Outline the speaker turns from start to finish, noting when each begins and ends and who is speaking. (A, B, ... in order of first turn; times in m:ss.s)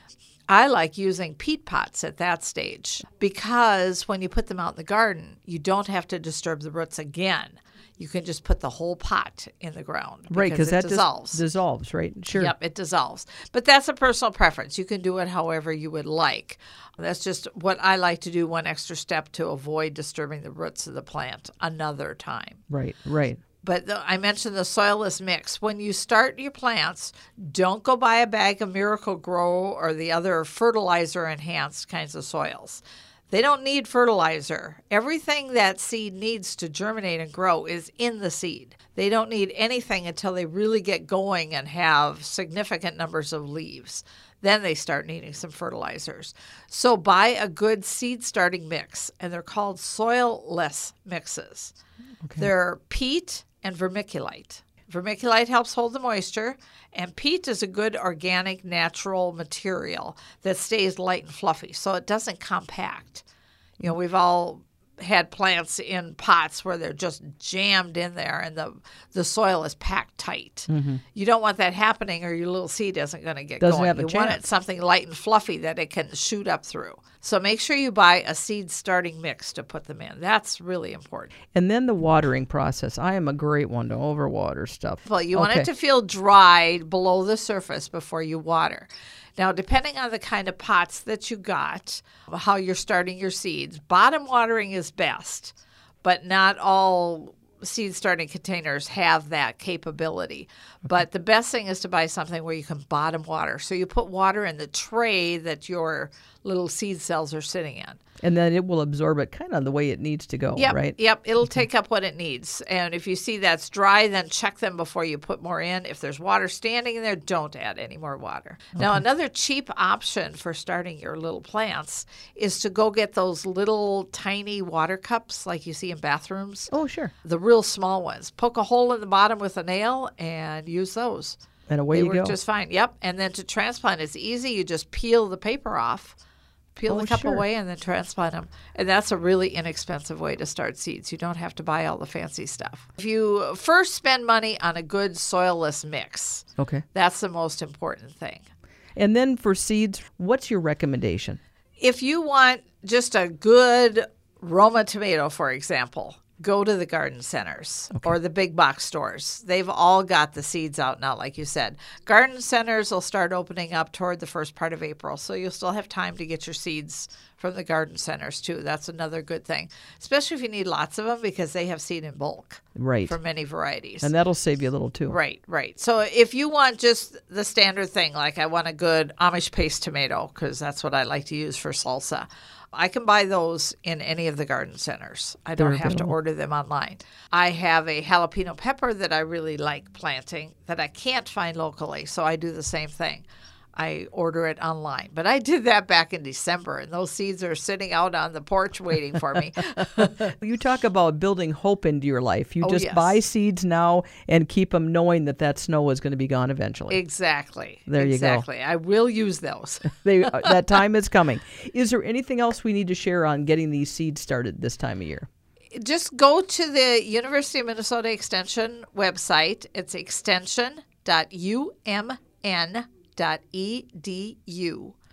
0:00.5-0:11.4 A
0:10.3-0:12.5 B
0:12.3-0:22.6 A
0:22.7-0:23.4 B
0:23.6-0:51.7 A
0:52.2-0:52.5 B
0:52.4-1:03.2 A
1:03.8-1:21.3 A
1:10.7-1:11.0 B
1:13.6-1:14.4 B
1:21.5-1:25.7 B
1:25.0-1:48.0 A
1:48.2-1:51.0 B
1:50.6-2:06.7 A
2:06.7-2:07.1 B
2:07.2-2:11.4 A
2:11.7-2:12.3 B
2:11.9-2:16.1 A
2:16.8-2:28.4 A
2:16.9-2:17.4 B
2:26.6-2:26.8 B
2:29.0-2:31.4 B
2:31.8-2:54.1 A
2:52.8-2:53.1 B
2:54.0-2:55.2 B
2:55.1-3:13.2 A
3:05.6-3:06.1 B
3:13.8-3:20.3 A
3:20.2-3:27.0 B
3:22.6-3:23.2 A
3:26.9-3:30.6 A
3:27.9-3:28.4 B
3:30.0-3:35.3 B
3:35.7-3:45.0 A